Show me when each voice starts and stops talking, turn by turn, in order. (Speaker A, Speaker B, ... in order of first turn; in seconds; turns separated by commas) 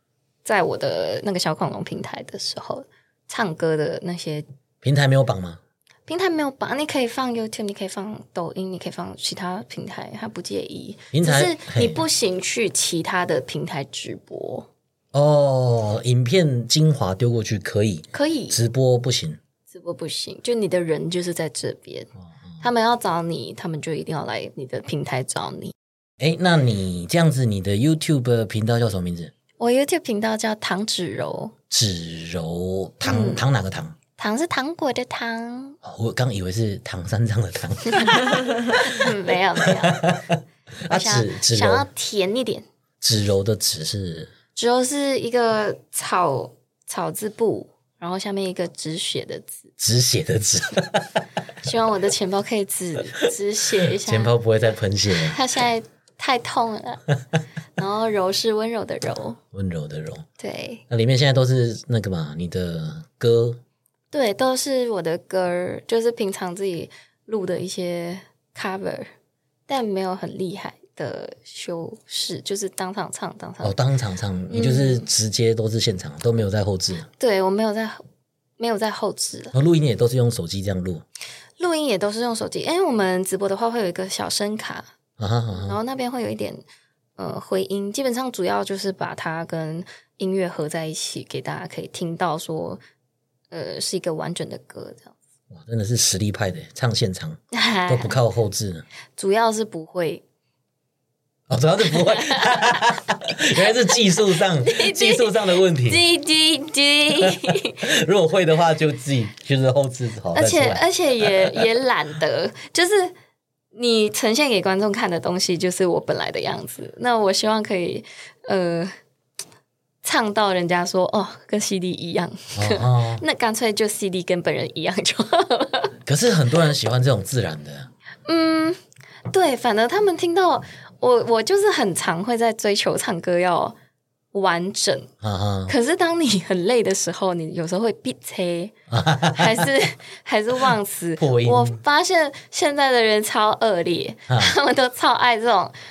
Speaker A: 0.5-4.5, Speaker B: 4.8-5.6, Speaker A: 6.1-14.7, Speaker B: 11.1-12.0, Speaker B: 15.1-19.4, Speaker A: 18.1-18.6, Speaker A: 19.7-22.1, Speaker A: 22.6-25.7, Speaker B: 26.2-29.3, Speaker A: 29.6-31.5, Speaker B: 31.7-34.0, Speaker A: 33.0-33.4, Speaker A: 34.2-35.8, Speaker B: 35.8-38.6, Speaker A: 38.8-40.1, Speaker B: 39.7-41.9, Speaker A: 40.9-42.6, Speaker B: 43.0-44.3, Speaker A: 44.6-49.6, Speaker B: 49.8-51.2, Speaker A: 51.6-54.4, Speaker B: 54.0-55.4, Speaker A: 55.3-57.0, Speaker A: 57.8-59.4, Speaker B: 59.5-60.2, Speaker A: 60.4-60.8, Speaker B: 60.9-63.6, Speaker A: 64.1-69.1, Speaker A: 69.7-73.8, Speaker B: 73.6-77.1, Speaker A: 74.5-75.0, Speaker A: 77.2-78.0, Speaker A: 78.6-79.5, Speaker B: 79.5-81.0, Speaker A: 81.6-84.9, Speaker B: 85.2-85.8, Speaker A: 85.5-86.6, Speaker A: 87.2-92.8, Speaker A: 93.5-95.1, Speaker B: 95.5-98.8, Speaker A: 97.5-98.2, Speaker A: 99.2-100.2, Speaker B: 101.5-106.0, Speaker A: 102.2-102.8, Speaker A: 104.6-107.8, Speaker B: 107.2-111.6, Speaker A: 110.3-113.1, Speaker A: 113.7-118.9, Speaker A: 120.0-125.9, Speaker B: 122.6-123.2, Speaker B: 126.1-127.9, Speaker A: 128.3-128.8, Speaker A: 129.3-133.8, Speaker A: 134.3-135.1, Speaker B: 135.2-135.7, Speaker A: 135.7-138.7, Speaker B: 138.9-139.6, Speaker A: 139.3-145.7, Speaker B: 141.2-141.8